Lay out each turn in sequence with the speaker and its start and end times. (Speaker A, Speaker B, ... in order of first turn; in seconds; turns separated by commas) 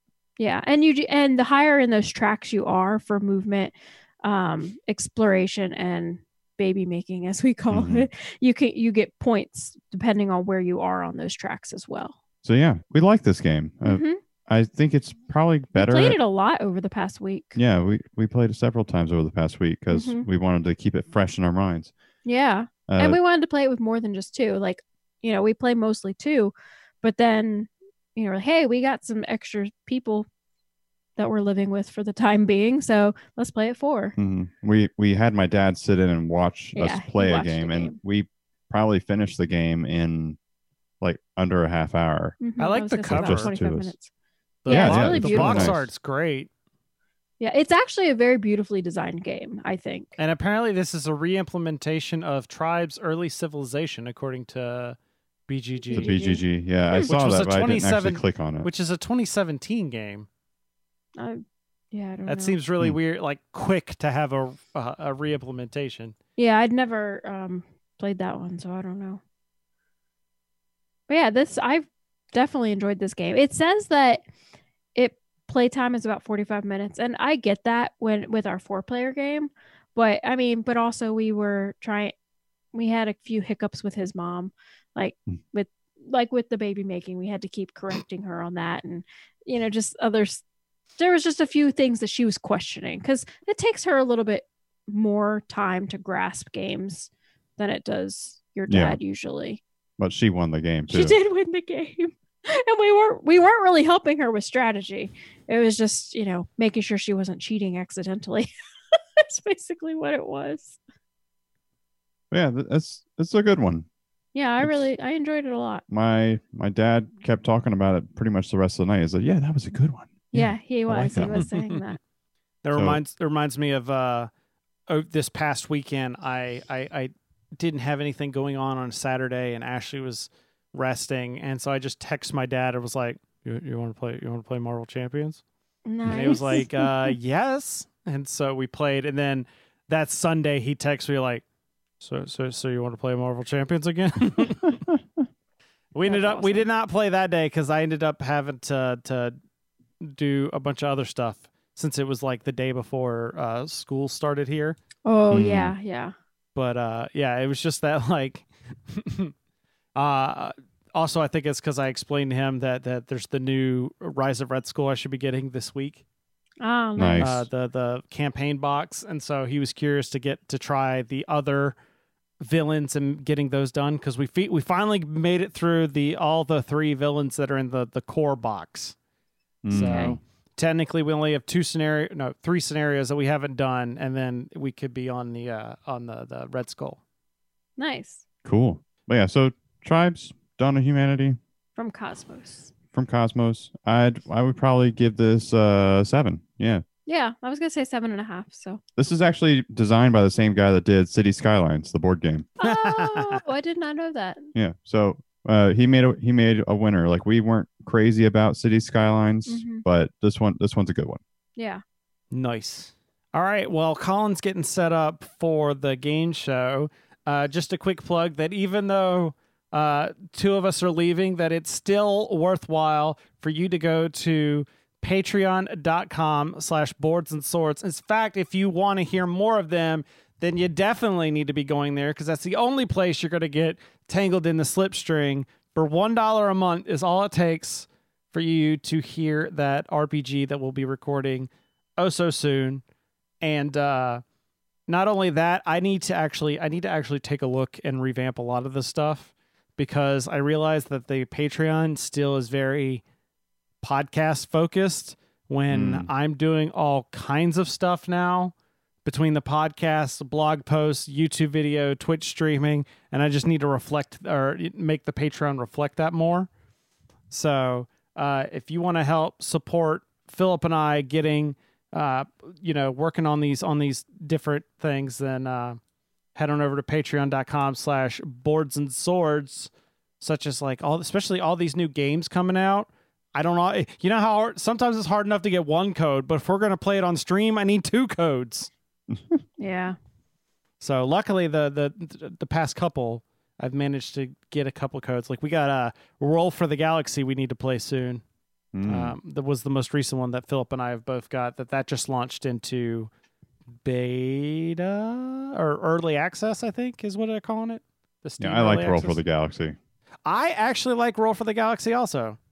Speaker A: 0.4-12.2, Speaker B: 7.7-8.1, Speaker B: 12.4-16.2, Speaker A: 13.8-14.2, Speaker A: 15.7-17.6, Speaker B: 17.6-21.9, Speaker A: 19.9-20.2, Speaker A: 22.2-30.3, Speaker B: 22.9-23.2, Speaker A: 31.2-34.1, Speaker B: 34.2-40.4, Speaker A: 36.7-38.0, Speaker B: 41.0-42.4, Speaker A: 42.4-44.1, Speaker C: 42.6-43.5, Speaker B: 43.0-43.9, Speaker C: 44.6-46.5, Speaker A: 44.7-45.8, Speaker B: 44.7-45.9, Speaker A: 47.4-50.2, Speaker C: 50.2-55.0, Speaker C: 55.5-56.2, Speaker A: 55.9-56.4, Speaker B: 55.9-58.7, Speaker C: 56.9-60.3, Speaker A: 61.1-62.6, Speaker C: 62.3-66.1, Speaker A: 66.4-69.2, Speaker A: 71.1-74.2, Speaker A: 74.9-82.1, Speaker A: 82.7-90.4, Speaker A: 91.0-99.6, Speaker B: 98.7-99.0, Speaker B: 100.0-101.2, Speaker A: 100.9-110.8, Speaker B: 112.3-113.8, Speaker A: 114.3-115.8, Speaker B: 115.9-121.4, Speaker A: 120.3-122.0, Speaker C: 121.2-121.6, Speaker C: 122.6-124.3, Speaker B: 122.7-123.0, Speaker C: 124.9-135.4, Speaker A: 135.8-137.1, Speaker C: 136.1-141.4, Speaker C: 142.0-144.8, Speaker C: 145.9-149.3, Speaker A: 146.1-146.7, Speaker C: 150.0-154.8, Speaker A: 155.0-156.1, Speaker B: 155.3-155.7, Speaker C: 156.5-159.3, Speaker C: 159.9-166.0, Speaker A: 166.6-167.3, Speaker B: 167.0-167.5, Speaker C: 167.2-171.7, Speaker C: 172.4-178.9, Speaker B: 179.6-180.2, Speaker C: 179.7-187.0, Speaker A: 179.7-180.2, Speaker A: 187.8-188.2, Speaker B: 188.4-191.4, Speaker A: 191.8-192.7, Speaker B: 192.9-196.8, Speaker A: 197.1-198.8, Speaker B: 198.9-202.5, Speaker A: 202.6-204.5, Speaker C: 202.6-203.4, Speaker B: 204.5-211.2, Speaker A: 209.5-209.8, Speaker A: 211.6-211.8, Speaker C: 212.3-242.8, Speaker C: 243.4-244.2, Speaker C: 244.9-253.0, Speaker C: 253.8-258.5, Speaker B: 255.7-256.1, Speaker C: 259.0-266.5, Speaker C: 267.3-275.8, Speaker C: 276.3-288.7, Speaker B: 289.1-289.4, Speaker A: 289.6-290.0, Speaker C: 290.8-298.2, Speaker B: 298.7-299.2, Speaker C: 298.9-303.1, Speaker C: 303.8-309.2, Speaker B: 308.4-309.8, Speaker C: 310.2-312.4